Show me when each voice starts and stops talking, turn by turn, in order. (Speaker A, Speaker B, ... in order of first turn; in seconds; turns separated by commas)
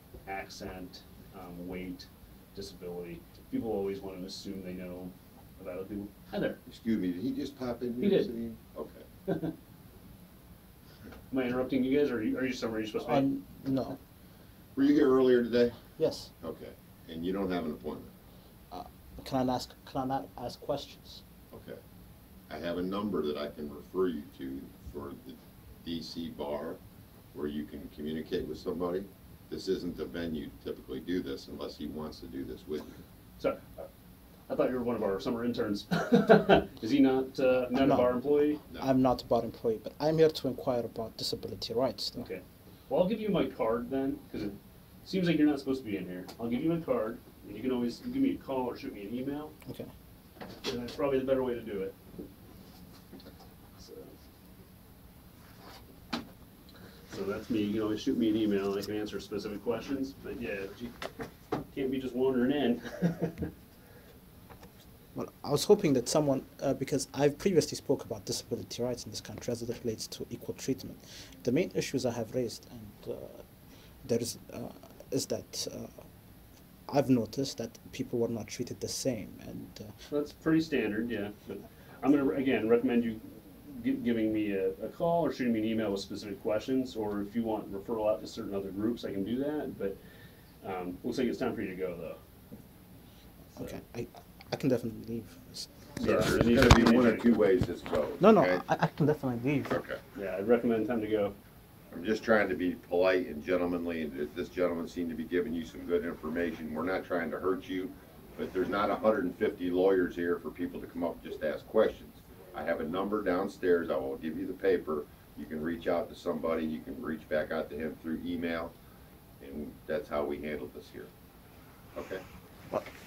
Speaker A: 0.2-6.6, Speaker B: 6.7-9.0, Speaker A: 8.0-8.3, Speaker A: 9.3-9.6, Speaker A: 11.3-13.3, Speaker C: 13.0-14.0, Speaker B: 14.8-15.8, Speaker C: 16.0-16.3, Speaker B: 16.4-18.1, Speaker C: 18.7-21.2, Speaker B: 21.5-21.8, Speaker B: 22.5-26.8, Speaker B: 27.3-33.0, Speaker A: 33.4-33.9, Speaker A: 34.5-38.6, Speaker C: 37.7-38.1, Speaker C: 38.8-42.3, Speaker A: 42.1-49.5, Speaker A: 50.6-52.0, Speaker A: 53.8-54.2, Speaker A: 57.1-60.9, Speaker A: 61.7-63.5, Speaker C: 65.2-73.4, Speaker C: 74.0-76.0, Speaker C: 76.9-79.9, Speaker A: 80.1-90.0, Speaker A: 90.6-92.2, Speaker C: 93.6-95.7, Speaker A: 96.0-97.4, Speaker B: 96.0-98.6, Speaker C: 98.2-99.8, Speaker B: 99.7-100.0, Speaker A: 100.2-101.3, Speaker B: 101.9-118.7, Speaker B: 119.4-121.1, Speaker B: 122.0-122.2